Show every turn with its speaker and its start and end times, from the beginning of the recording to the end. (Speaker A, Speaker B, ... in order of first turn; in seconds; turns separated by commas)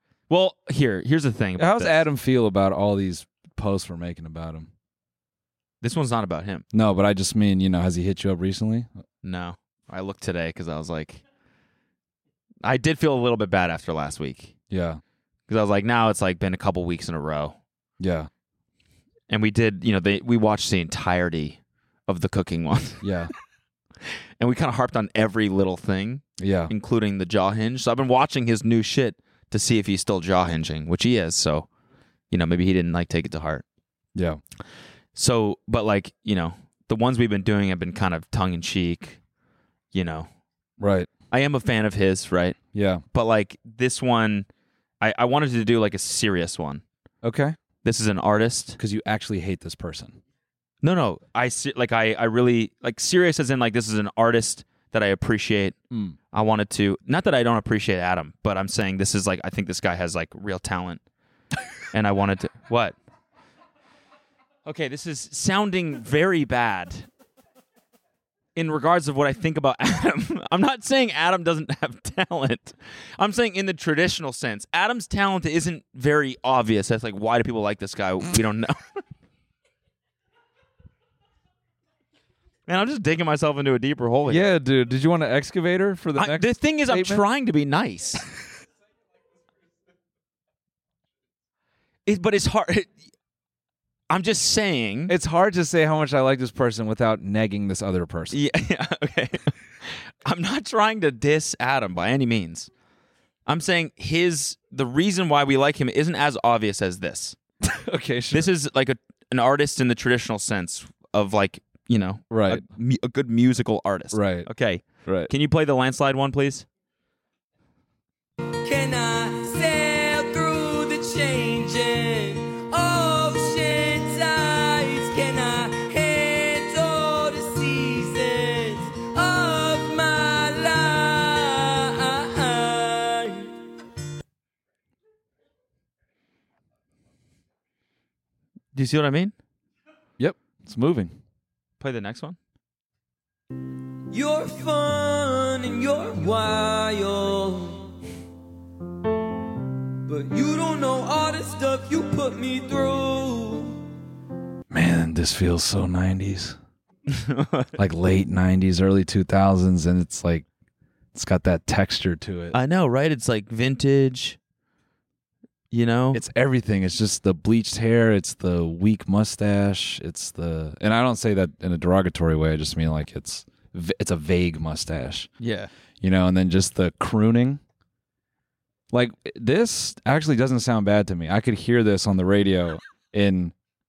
Speaker A: 0.3-2.0, Speaker B: 1.6-4.7, Speaker A: 5.8-6.6, Speaker B: 6.7-8.9, Speaker A: 9.2-11.2, Speaker A: 12.6-14.5, Speaker B: 14.7-15.0, Speaker A: 15.5-17.6, Speaker B: 18.0-18.3, Speaker A: 19.3-23.1, Speaker B: 23.0-23.3, Speaker A: 24.4-31.7, Speaker B: 26.4-26.7, Speaker A: 32.3-33.6, Speaker B: 34.1-34.4, Speaker A: 35.1-39.2, Speaker A: 39.9-40.3, Speaker B: 40.8-41.1, Speaker A: 41.3-42.6, Speaker B: 42.7-43.0, Speaker A: 43.1-44.5, Speaker A: 45.0-46.8, Speaker B: 47.2-47.6, Speaker A: 47.8-48.8, Speaker B: 48.8-50.2, Speaker A: 50.8-55.8, Speaker B: 55.9-56.1, Speaker A: 56.3-61.0, Speaker A: 61.9-63.0, Speaker A: 64.6-67.1, Speaker A: 68.5-79.0, Speaker A: 82.7-84.5, Speaker B: 84.2-87.2, Speaker A: 86.2-88.3, Speaker A: 92.0-92.9, Speaker A: 94.1-95.1, Speaker B: 95.1-98.4, Speaker A: 98.3-102.7, Speaker A: 103.5-107.4, Speaker B: 107.7-108.5, Speaker A: 108.3-116.7, Speaker B: 112.3-112.7, Speaker B: 114.1-114.5, Speaker B: 115.0-115.3, Speaker C: 118.6-133.5, Speaker A: 138.7-139.3, Speaker B: 140.2-141.1, Speaker A: 141.8-142.4, Speaker C: 144.1-147.9, Speaker C: 150.1-153.8, Speaker B: 154.7-156.6, Speaker A: 157.1-157.7, Speaker B: 157.8-160.5, Speaker B: 161.1-162.6, Speaker A: 162.5-164.4, Speaker A: 165.7-166.2, Speaker B: 166.1-175.3, Speaker A: 175.4-175.7, Speaker B: 176.0-177.6, Speaker B: 178.9-183.5